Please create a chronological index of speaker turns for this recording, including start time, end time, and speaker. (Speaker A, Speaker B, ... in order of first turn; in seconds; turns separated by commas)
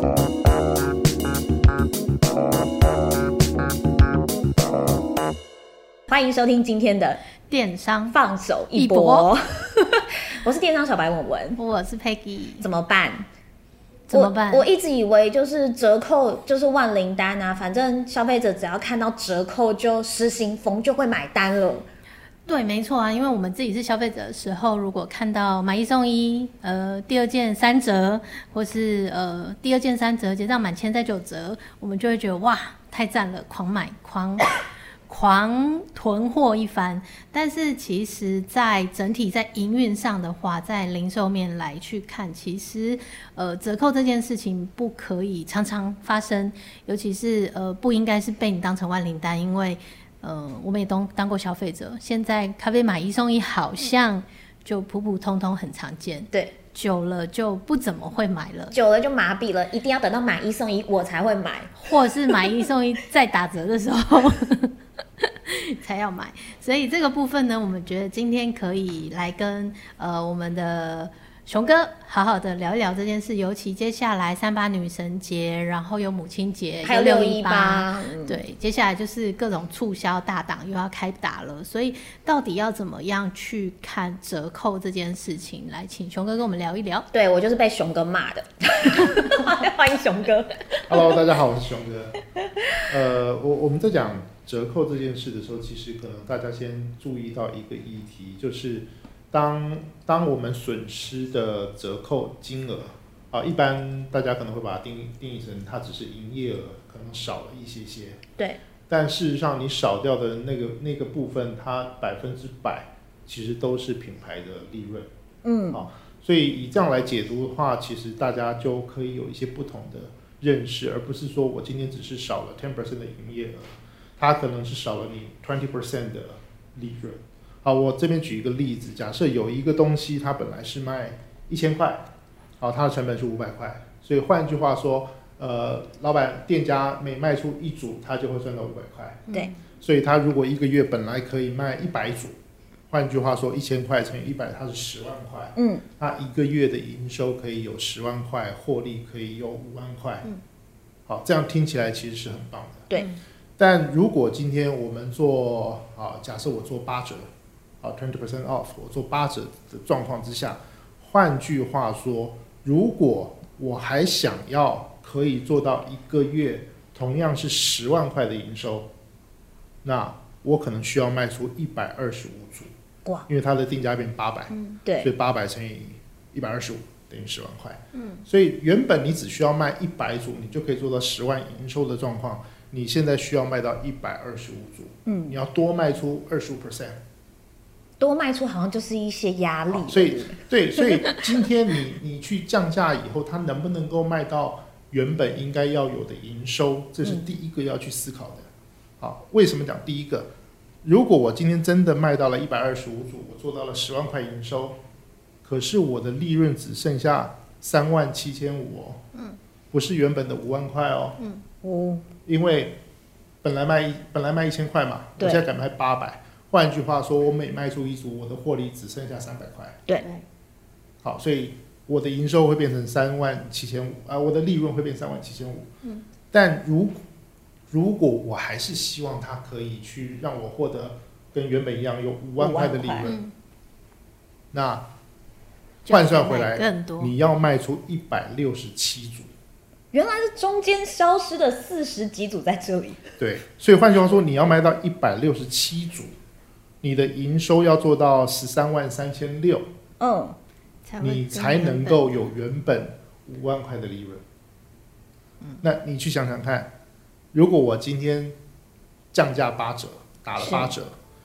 Speaker A: 6.1-7.2, Speaker B: 7.5-8.2, Speaker A: 8.1-11.6, Speaker B: 8.7-9.3, Speaker B: 11.6-12.6, Speaker A: 12.6-13.3, Speaker B: 14.1-14.6, Speaker A: 14.1-21.9, Speaker B: 22.5-34.5, Speaker B: 35.1-58.8, Speaker A: 58.7-61.9, Speaker B: 61.8-87.1, Speaker A: 76.8-78.4, Speaker A: 87.1-91.0, Speaker C: 90.9-92.2, Speaker C: 92.9-108.2, Speaker C: 108.9-115.1, Speaker A: 115.5-115.8, Speaker C: 115.7-132.1, Speaker C: 132.6-139.3, Speaker C: 139.8-142.3, Speaker C: 142.9-150.3, Speaker A: 145.6-145.8, Speaker C: 151.1-152.9, Speaker C: 153.6-157.3, Speaker C: 157.8-168.9, Speaker C: 169.8-172.7, Speaker C: 173.3-187.0, Speaker A: 174.6-175.1, Speaker B: 177.9-178.2, Speaker A: 185.1-185.4, Speaker A: 188.0-190.9, Speaker C: 189.7-198.5, Speaker A: 197.0-197.3, Speaker C: 199.0-200.3, Speaker C: 200.8-204.8, Speaker C: 205.4-209.0, Speaker C: 209.7-211.2, Speaker B: 211.2-211.4, Speaker A: 211.6-212.1, Speaker C: 212.3-212.8, Speaker C: 213.4-219.8, Speaker C: 221.0-225.7, Speaker C: 226.3-227.0, Speaker C: 227.7-233.2, Speaker A: 232.4-233.2, Speaker B: 233.1-233.3, Speaker C: 234.5-234.9, Speaker B: 235.9-237.1, Speaker C: 235.9-239.3, Speaker A: 239.9-243.0, Speaker C: 243.2-246.1, Speaker C: 246.8-249.7, Speaker A: 250.0-250.4, Speaker B: 250.9-252.1, Speaker C: 251.0-254.2, Speaker C: 255.6-256.7, Speaker C: 257.3-258.4, Speaker C: 259.1-261.0, Speaker A: 260.4-260.7